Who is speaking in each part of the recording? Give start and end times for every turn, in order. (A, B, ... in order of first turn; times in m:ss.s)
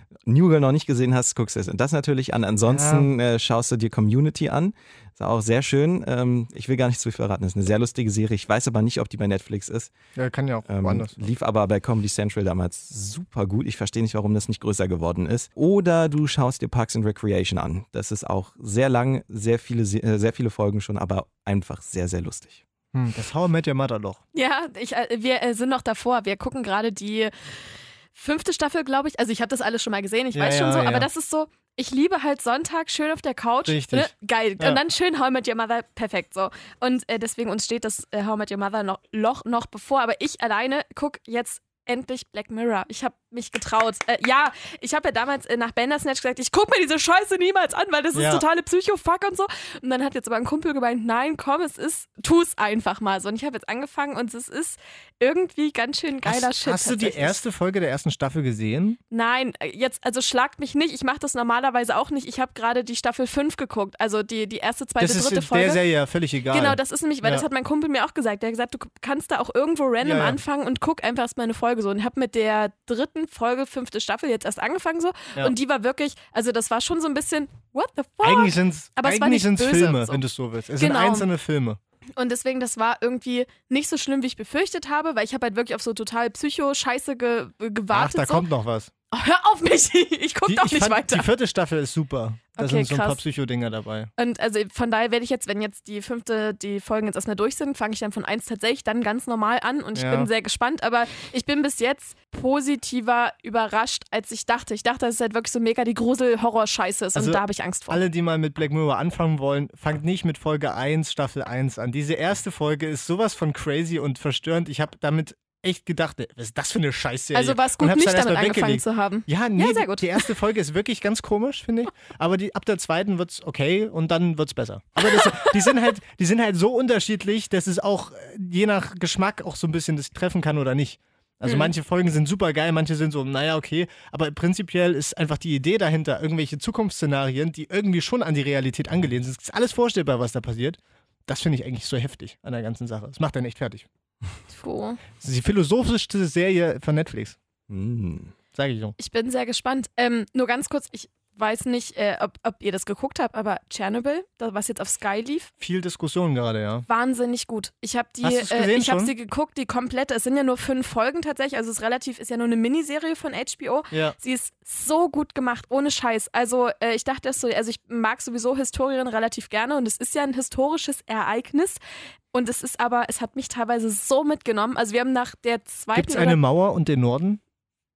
0:00.2-0:09.9 A
0:02.7-0:03.1 B
0:10.2-0:11.2 B
0:10.7-0:22.6 A
0:22.9-0:24.2 B
0:24.3-0:57.4 C
0:30.3-0:31.1 B
0:33.6-0:34.8 B
0:48.1-0:48.4 B
0:56.2-0:59.0 B
0:59.1-1:05.8 C
1:05.0-1:07.4 B
1:06.5-1:20.2 C
1:10.0-1:10.4 B
1:18.2-1:21.8 B
1:20.8-1:21.3 C
1:22.2-1:28.4 C
1:27.9-1:28.9 B
1:29.1-1:31.3 C
1:30.4-1:34.1 B
1:32.6-1:33.2 C
1:34.2-1:48.0 C
1:39.9-1:40.3 B
1:47.2-2:23.8 B
1:57.3-2:00.3 C
2:05.1-2:05.5 C
2:24.5-2:25.0 C
2:25.2-2:27.4 B
2:27.7-2:28.3 A
2:28.5-2:29.0 B
2:29.0-2:35.5 C
2:35.6-2:36.8 B
2:36.9-2:51.8 C
2:38.2-2:39.1 B
2:52.3-2:56.4 C
2:55.9-2:57.4 B